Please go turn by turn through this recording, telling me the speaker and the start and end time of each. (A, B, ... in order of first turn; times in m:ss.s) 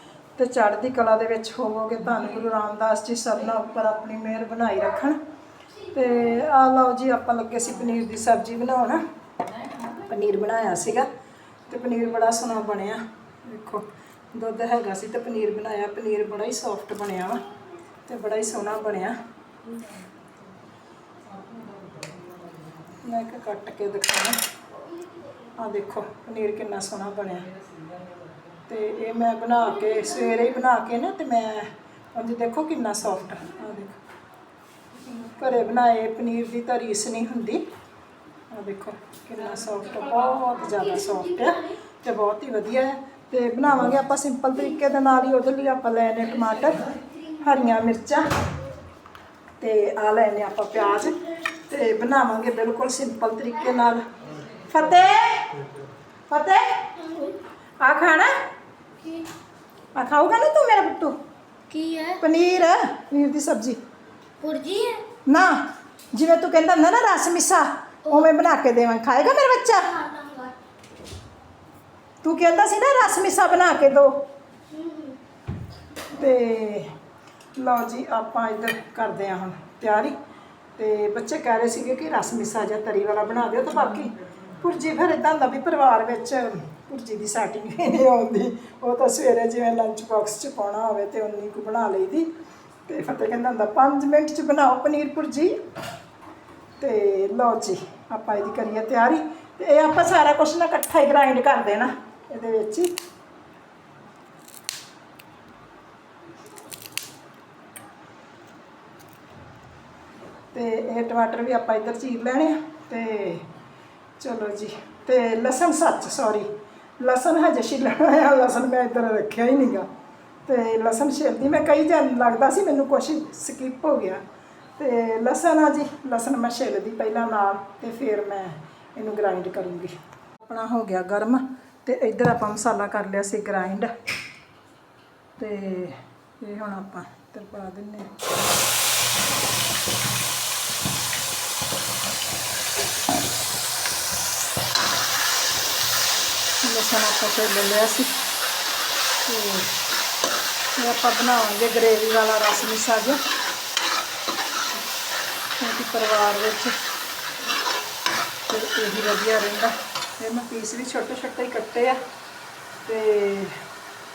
0:00.4-0:05.2 A
0:05.8-0:09.0 A
0:09.8-0:11.1 A
0:11.7-0:17.4 A
0:18.0-0:19.2 A
0:22.8-0:24.4 A
0:25.5-0:27.6 A
0:28.5-0:34.0 A
0:35.0-0:37.6 A
0:38.5-0:48.3 A
0:49.6-0:55.6 A
0:56.3-0:58.5 A
0:59.9-1:01.2 A
1:01.7-1:02.2 B
1:02.2-1:03.8 A
1:04.4-1:05.1 B
1:05.2-1:10.1 A
1:10.0-1:10.6 B
1:12.2-1:14.2 A
1:14.7-1:15.2 B
1:16.1-1:16.9 A
1:17.6-1:20.2 A
1:20.8-1:32.3 A
1:32.8-1:35.6 A
1:36.8-1:42.9 A
1:50.5-1:53.5 A
1:54.2-1:59.9 A
2:00.4-2:04.2 A
2:04.8-2:13.9 A
2:15.4-2:18.2 A
2:26.6-2:28.1 A
2:29.2-2:29.8 A
2:30.8-2:33.2 A
2:35.6-2:36.8 A
2:38.5-2:42.0 A
2:42.8-2:43.6 A